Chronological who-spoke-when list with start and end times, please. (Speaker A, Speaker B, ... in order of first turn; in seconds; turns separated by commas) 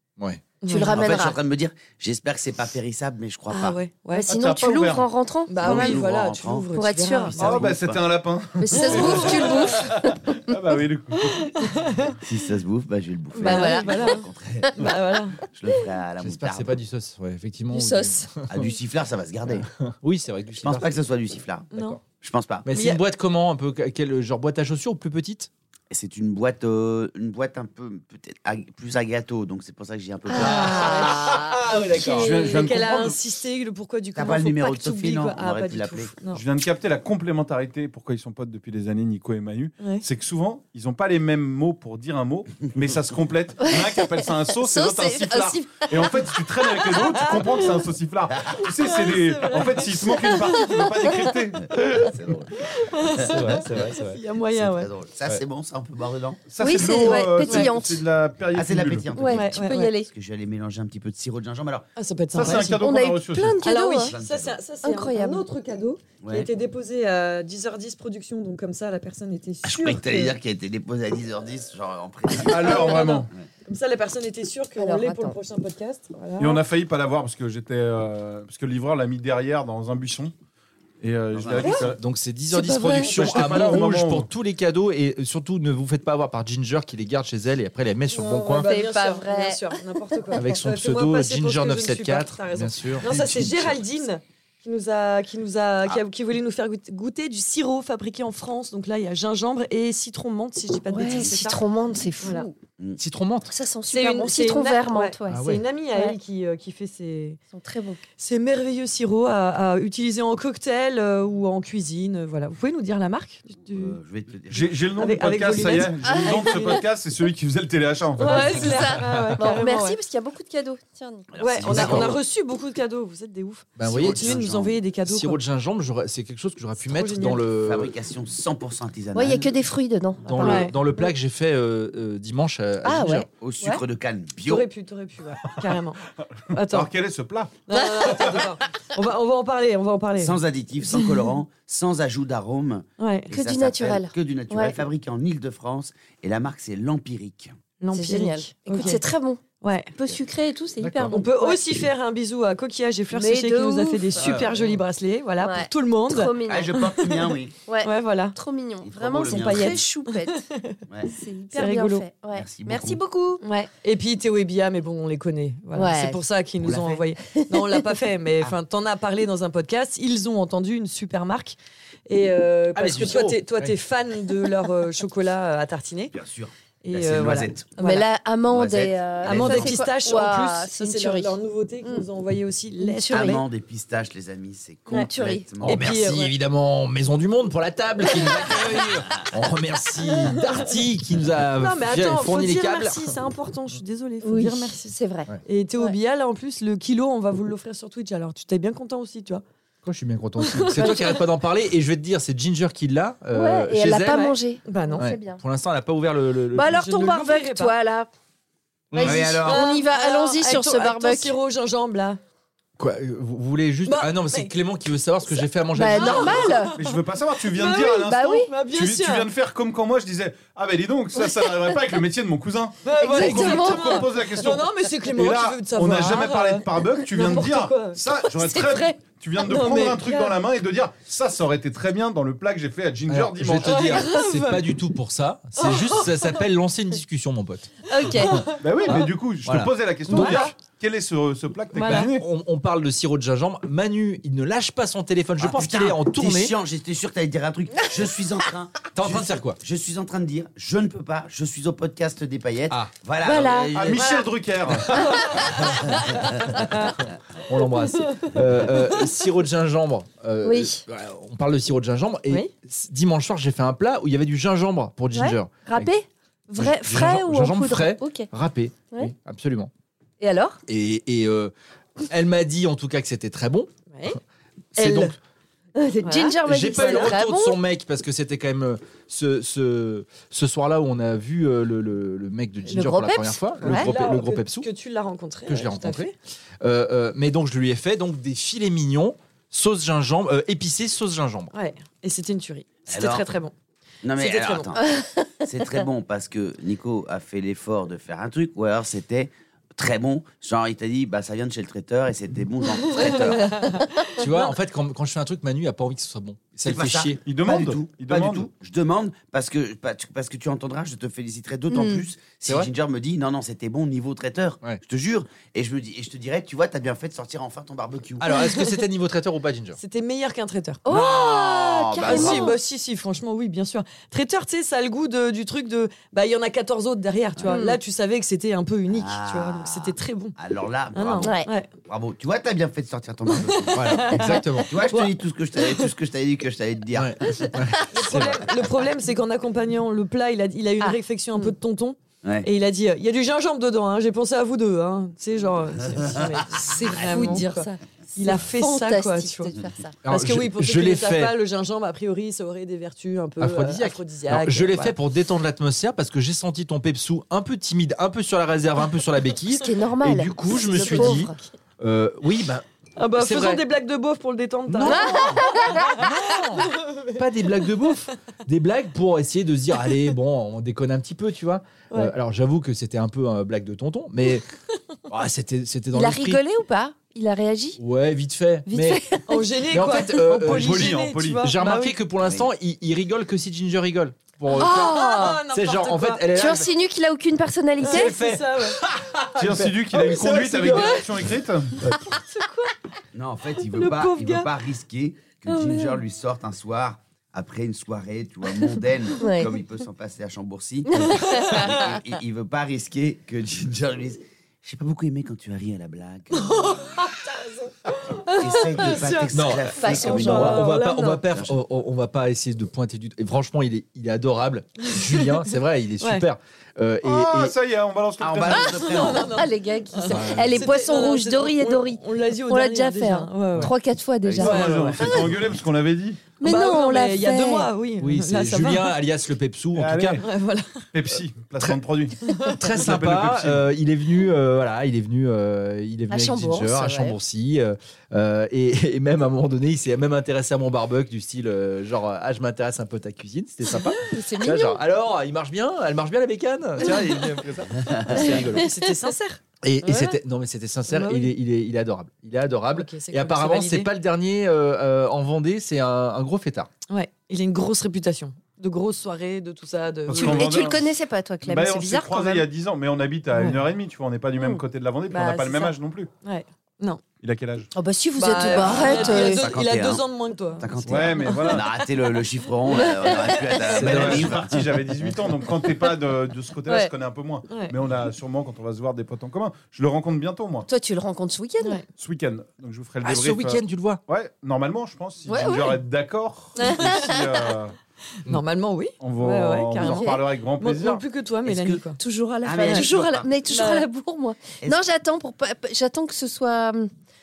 Speaker A: 0.2-0.4, Speaker B: 0.6-1.0, Speaker C: 0.7-1.4, Speaker D: 0.8-3.8, Speaker B: 3.5-4.3, Speaker C: 4.1-6.0, Speaker E: 4.3-5.1, Speaker B: 5.5-7.5, Speaker D: 5.6-8.0, Speaker C: 6.7-7.5, Speaker E: 7.4-11.6, Speaker C: 8.6-10.7, Speaker B: 8.7-9.8, Speaker B: 11.3-12.2, Speaker D: 12.2-16.8, Speaker B: 13.3-15.4, Speaker C: 13.4-14.9, Speaker A: 16.2-18.6, Speaker C: 17.7-18.2, Speaker D: 18.5-19.7, Speaker A: 19.8-20.9, Speaker D: 20.6-21.7, Speaker B: 21.7-22.0, Speaker D: 22.2-22.7, Speaker A: 22.6-25.5, Speaker B: 22.7-23.0, Speaker D: 25.9-31.1, Speaker B: 30.3-36.4, Speaker A: 30.4-32.5, Speaker C: 30.4-31.4, Speaker E: 32.1-33.2, Speaker D: 34.1-36.1, Speaker E: 36.3-52.3, Speaker B: 39.8-40.0, Speaker C: 43.6-44.0, Speaker C: 44.6-46.2, Speaker B: 47.0-47.8, Speaker B: 48.5-51.2, Speaker D: 51.5-53.8, Speaker B: 52.6-54.9, Speaker A: 53.3-54.2, Speaker D: 54.5-56.4, Speaker E: 56.5-59.1, Speaker C: 56.6-58.1, Speaker B: 57.0-57.7, Speaker D: 58.5-61.9, Speaker C: 59.1-60.1, Speaker B: 59.3-59.9, Speaker B: 62.0-62.8, Speaker E: 62.3-63.6, Speaker C: 62.6-64.1, Speaker B: 63.6-70.4, Speaker D: 64.0-64.6, Speaker C: 64.8-65.4, Speaker D: 66.2-66.5, Speaker D: 69.6-73.5, Speaker E: 72.4-73.3, Speaker B: 72.5-76.6, Speaker C: 74.8-75.3, Speaker E: 76.4-80.3, Speaker E: 81.0-82.0, Speaker D: 81.3-81.7, Speaker A: 81.7-88.7, Speaker C: 82.5-83.1, Speaker E: 83.0-84.3, Speaker B: 88.1-101.6, Speaker C: 88.6-89.8, Speaker A: 90.3-93.8, Speaker C: 100.9-102.5, Speaker B: 102.2-102.5, Speaker A: 103.0-103.5, Speaker C: 103.5-106.2, Speaker B: 103.9-107.4, Speaker A: 105.3-105.6, Speaker C: 107.5-108.0, Speaker B: 108.2-114.0, Speaker D: 113.6-114.9, Speaker E: 114.5-119.3, Speaker B: 115.0-116.8, Speaker C: 116.0-116.6, Speaker B: 118.2-120.0, Speaker C: 118.2-121.4, Speaker D: 121.3-122.2, Speaker B: 121.4-125.4, Speaker A: 121.7-122.2, Speaker A: 123.8-124.4, Speaker D: 123.8-124.8, Speaker A: 125.1-127.9, Speaker B: 126.8-127.4, Speaker D: 127.3-129.5, Speaker C: 129.1-131.0, Speaker A: 130.2-133.3, Speaker B: 130.4-130.8, Speaker C: 132.8-133.8, Speaker D: 133.4-134.7, Speaker B: 134.4-136.0, Speaker E: 136.5-137.6, Speaker B: 136.5-136.9, Speaker B: 137.7-140.4, Speaker D: 140.2-147.5, Speaker B: 143.0-143.3, Speaker C: 143.3-144.8, Speaker B: 147.8-149.0, Speaker C: 147.9-149.4, Speaker B: 149.6-149.9, Speaker C: 149.9-151.6, Speaker E: 150.9-151.2, Speaker B: 151.1-158.4, Speaker C: 153.1-154.4, Speaker A: 154.2-154.8, Speaker C: 155.4-156.8, Speaker D: 156.4-157.6, Speaker C: 157.7-160.4, Speaker D: 158.8-159.9, Speaker B: 159.2-160.8, Speaker D: 160.9-161.1, Speaker C: 161.1-163.4, Speaker B: 161.5-162.0, Speaker D: 162.3-163.0, Speaker B: 163.4-171.6, Speaker C: 165.8-166.2, Speaker D: 166.6-167.0, Speaker C: 167.4-167.8, Speaker B: 172.1-176.1, Speaker A: 172.8-173.7, Speaker D: 176.1-177.7, Speaker B: 176.8-178.1, Speaker C: 177.8-182.0, Speaker D: 178.5-179.9, Speaker B: 179.2-183.4, Speaker C: 182.8-183.4, Speaker D: 183.1-186.1, Speaker C: 184.9-185.4, Speaker B: 185.6-186.3, Speaker A: 185.6-193.1, Speaker B: 190.4-190.8, Speaker B: 191.6-194.9, Speaker C: 194.2-195.9, Speaker B: 195.4-199.4, Speaker A: 199.8-204.3, Speaker B: 200.4-201.2, Speaker C: 203.3-205.4, Speaker B: 204.1-205.1, Speaker A: 205.0-206.8, Speaker C: 206.5-208.1, Speaker B: 206.7-207.7, Speaker A: 208.9-209.3, Speaker C: 208.9-211.3, Speaker D: 209.0-209.8, Speaker B: 209.3-212.2, Speaker A: 212.8-216.5, Speaker B: 213.8-214.5, Speaker C: 215.8-216.8, Speaker B: 215.9-219.3, Speaker E: 216.7-233.9, Speaker C: 217.7-218.5, Speaker B: 222.8-228.0, Speaker C: 223.0-224.3, Speaker C: 228.4-228.9, Speaker B: 229.4-230.4, Speaker A: 233.1-240.4, Speaker B: 233.6-234.7, Speaker B: 235.6-236.4, Speaker C: 237.9-238.4, Speaker B: 238.0-238.9, Speaker E: 238.6-242.3, Speaker B: 240.1-240.5, Speaker B: 241.8-242.1, Speaker A: 241.8-246.5, Speaker D: 245.4-254.2, Speaker A: 248.9-249.6, Speaker C: 253.2-253.7, Speaker E: 253.7-255.1, Speaker B: 253.9-254.2, Speaker B: 254.9-255.6, Speaker B: 256.5-256.9, Speaker A: 257.5-265.9, Speaker B: 257.5-259.1, Speaker C: 260.4-260.8, Speaker C: 265.1-268.3, Speaker A: 266.6-269.7, Speaker C: 270.2-270.6, Speaker A: 270.7-271.5, Speaker A: 272.0-273.7, Speaker B: 273.9-274.2, Speaker A: 274.8-275.1, Speaker B: 274.8-275.1, Speaker C: 275.8-277.6, Speaker B: 276.0-277.1, Speaker A: 276.4-284.7, Speaker C: 282.7-283.9, Speaker B: 283.6-286.1, Speaker A: 285.5-291.5, Speaker B: 291.5-293.5, Speaker D: 292.9-293.3, Speaker D: 294.0-303.7, Speaker B: 294.1-294.7, Speaker C: 294.8-295.3, Speaker B: 302.9-303.9, Speaker A: 304.2-307.2, Speaker D: 306.6-318.3, Speaker E: 307.2-308.5, Speaker C: 311.7-312.0, Speaker A: 318.2-319.8, Speaker B: 318.3-318.7, Speaker B: 319.8-320.9, Speaker C: 320.9-322.6, Speaker D: 320.9-322.6, Speaker B: 322.0-330.4, Speaker C: 327.5-327.8, Speaker D: 328.9-337.5, Speaker B: 330.9-331.7, Speaker C: 331.2-331.5, Speaker B: 333.3-335.9, Speaker A: 333.7-334.7, Speaker A: 336.9-338.4, Speaker B: 337.9-349.5, Speaker D: 338.1-338.4, Speaker C: 340.8-341.5, Speaker D: 346.0-346.3, Speaker C: 346.5-349.9, Speaker D: 347.0-347.4, Speaker A: 350.0-351.3, Speaker B: 350.1-354.9, Speaker A: 353.4-362.6, Speaker C: 359.6-361.4, Speaker B: 360.7-361.2, Speaker B: 363.0-366.1, Speaker A: 363.2-363.6, Speaker A: 364.7-374.5, Speaker C: 364.9-366.0, Speaker B: 366.6-367.2, Speaker A: 375.1-376.4, Speaker C: 375.9-377.8, Speaker A: 377.8-379.0, Speaker C: 378.7-379.4, Speaker B: 379.3-381.9, Speaker A: 379.7-386.7, Speaker E: 380.4-381.5, Speaker D: 382.2-382.5, Speaker C: 384.5-385.4, Speaker B: 384.5-386.3, Speaker C: 386.3-388.1, Speaker B: 387.8-388.8, Speaker A: 387.8-392.0, Speaker E: 389.4-391.8, Speaker B: 390.5-391.0, Speaker B: 392.0-392.8, Speaker D: 393.1-407.1, Speaker B: 393.6-394.5, Speaker C: 395.5-395.9, Speaker C: 399.2-399.5, Speaker C: 400.9-401.9, Speaker B: 401.3-401.7, Speaker B: 406.3-411.2, Speaker D: 408.3-410.7, Speaker A: 409.3-417.5, Speaker C: 409.8-410.6, Speaker D: 411.3-411.6, Speaker B: 414.9-415.4, Speaker B: 416.0-416.2, Speaker E: 417.0-418.8, Speaker D: 418.2-419.4, Speaker B: 418.5-423.7, Speaker C: 418.9-425.3, Speaker A: 420.1-420.6, Speaker B: 424.4-425.2, Speaker E: 424.4-426.3, Speaker C: 426.4-427.7, Speaker B: 426.4-428.9, Speaker A: 428.0-430.2, Speaker E: 429.8-430.2, Speaker B: 430.2-430.9, Speaker E: 430.9-433.7, Speaker B: 432.2-432.6, Speaker A: 432.6-448.8, Speaker C: 436.1-437.2, Speaker C: 443.8-444.8, Speaker D: 447.8-448.3, Speaker B: 448.1-450.2, Speaker C: 448.1-448.5, Speaker A: 449.6-456.7, Speaker B: 450.9-451.3, Speaker B: 452.7-453.9, Speaker B: 456.9-460.7, Speaker E: 460.1-460.9, Speaker C: 460.1-462.4, Speaker E: 461.4-466.1, Speaker B: 465.1-467.0, Speaker E: 467.2-467.7, Speaker C: 467.7-469.5, Speaker B: 468.2-471.5, Speaker D: 468.4-470.0, Speaker D: 470.6-475.1, Speaker E: 470.9-471.7, Speaker C: 472.8-473.6, Speaker A: 473.7-474.4, Speaker E: 473.7-480.7, Speaker B: 477.5-477.7, Speaker C: 480.7-481.8, Speaker E: 481.9-487.8, Speaker A: 483.0-484.0, Speaker B: 485.3-485.8, Speaker B: 486.6-487.2, Speaker B: 488.2-492.0, Speaker E: 489.0-491.0, Speaker C: 489.8-490.2, Speaker D: 491.4-491.9, Speaker C: 492.0-496.9, Speaker D: 492.4-493.3, Speaker B: 492.6-492.9, Speaker B: 493.5-493.9